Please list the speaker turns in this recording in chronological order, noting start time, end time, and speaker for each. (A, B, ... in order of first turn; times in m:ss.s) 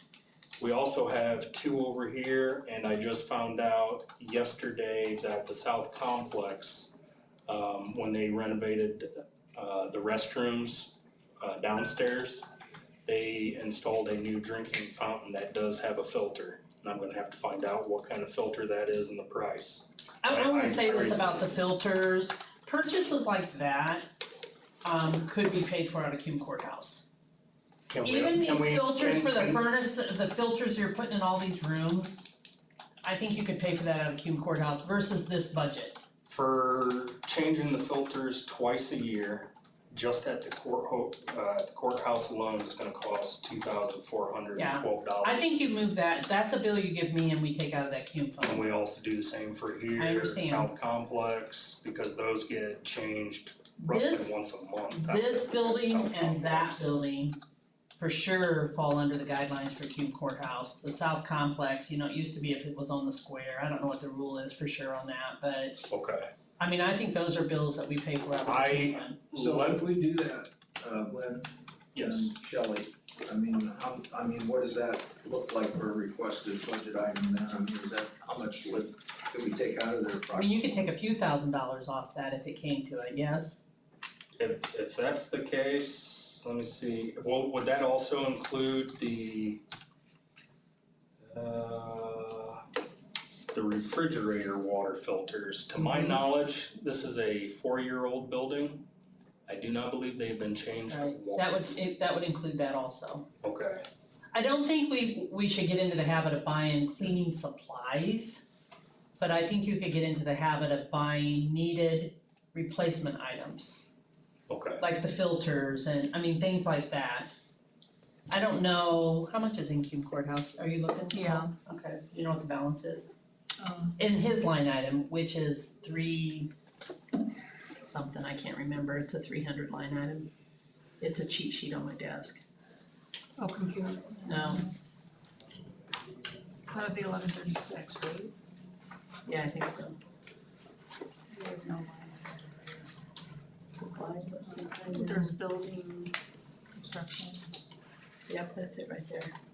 0:00.6-0:12.5 A
0:13.0-0:21.5 A
0:20.2-0:24.0 B
0:24.8-0:27.0 B
0:27.9-0:29.6 A
0:28.0-0:32.3 B
0:33.0-0:36.0 B
0:36.3-0:45.5 A
0:44.5-0:48.6 B
0:48.4-0:56.9 A
0:50.0-0:50.7 B
0:53.8-0:57.4 B
0:58.0-1:05.9 B
1:05.9-1:06.3 A
1:06.6-1:09.2 B
1:08.4-1:09.8 A
1:09.3-1:20.9 C
1:11.9-1:12.3 A
1:20.3-1:23.6 B
1:24.4-1:29.6 A
1:31.2-1:32.6 A
1:33.5-1:38.8 A
1:35.8-1:36.2 B
1:39.5-1:41.8 A
1:40.9-1:43.2 B
1:43.4-1:43.8 A
1:44.3-1:48.5 B
1:49.2-1:53.8 B
1:54.5-1:54.8 A
1:54.8-1:57.3 B
1:58.3-2:03.0 B
2:01.1-2:01.5 D
2:03.6-2:03.9 D
2:04.0-2:06.5 B
2:07.8-2:10.3 B
2:11.0-2:12.4 B
2:13.4-2:14.7 D
2:14.2-2:14.7 B
2:16.7-2:18.3 D
2:19.2-2:20.0 B
2:21.3-2:22.7 D
2:23.7-2:25.3 B
2:24.4-2:26.1 D
2:26.8-2:27.5 D
2:28.3-2:29.3 B